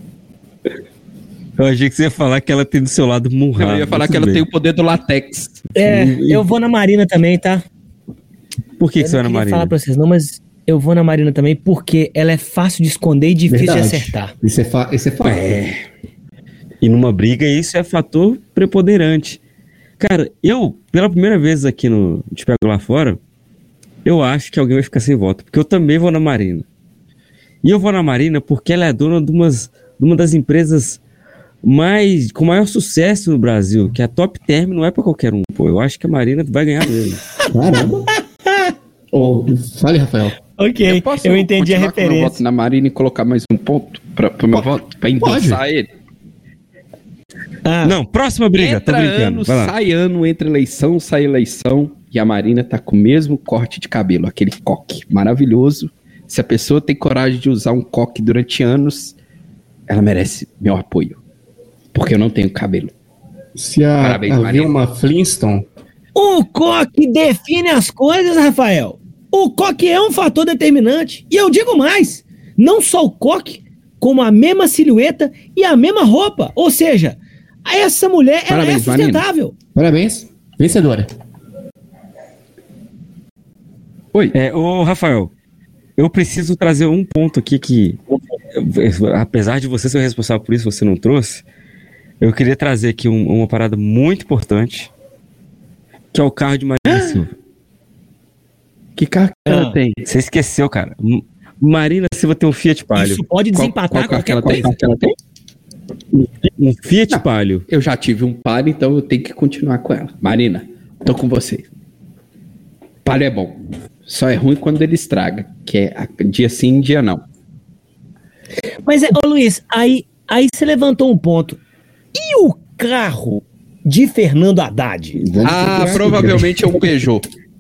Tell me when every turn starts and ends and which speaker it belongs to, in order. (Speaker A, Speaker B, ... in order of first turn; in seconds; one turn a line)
Speaker A: 1.6-4.5
Speaker B: 3.6-5.7
Speaker C: 5.8-7.6
Speaker A: 5.8-6.5
Speaker A: 8.8-9.7
Speaker C: 9.0-14.3
Speaker D: 13.5-15.6
Speaker A: 15.2-15.8
Speaker A: 16.8-19.4
Speaker A: 20.0-23.2
Speaker A: 24.1-26.6
Speaker A: 27.6-31.0
Speaker A: 31.6-37.2
Speaker D: 37.5-38.1
Speaker C: 38.5-38.7
Speaker D: 39.1-40.4
Speaker C: 40.6-42.4
Speaker B: 40.9-45.9
Speaker D: 44.5-45.6
Speaker C: 47.6-48.0
Speaker A: 47.8-49.7
Speaker B: 48.5-59.2
Speaker B: 59.9-61.2
Speaker B: 61.9-62.9
Speaker D: 63.6-65.7
Speaker B: 64.0-64.7
Speaker C: 66.2-79.5
Speaker B: 78.5-79.3
Speaker D: 79.8-81.1
Speaker A: 84.3-85.3
Speaker A: 86.0-88.0
Speaker A: 88.5-91.4
Speaker A: 92.2-94.9
Speaker A: 96.1-97.3
Speaker B: 96.9-97.2
Speaker B: 99.0-100.0
Speaker C: 99.5-99.8
Speaker A: 100.1-103.2
Speaker C: 103.0-104.8
Speaker B: 103.5-105.2
Speaker A: 106.4-107.7
Speaker B: 107.1-111.7
Speaker B: 113.0-117.2
Speaker C: 118.9-121.6
Speaker C: 122.2-125.2
Speaker A: 125.2-126.4
Speaker D: 125.3-126.6
Speaker B: 125.4-127.3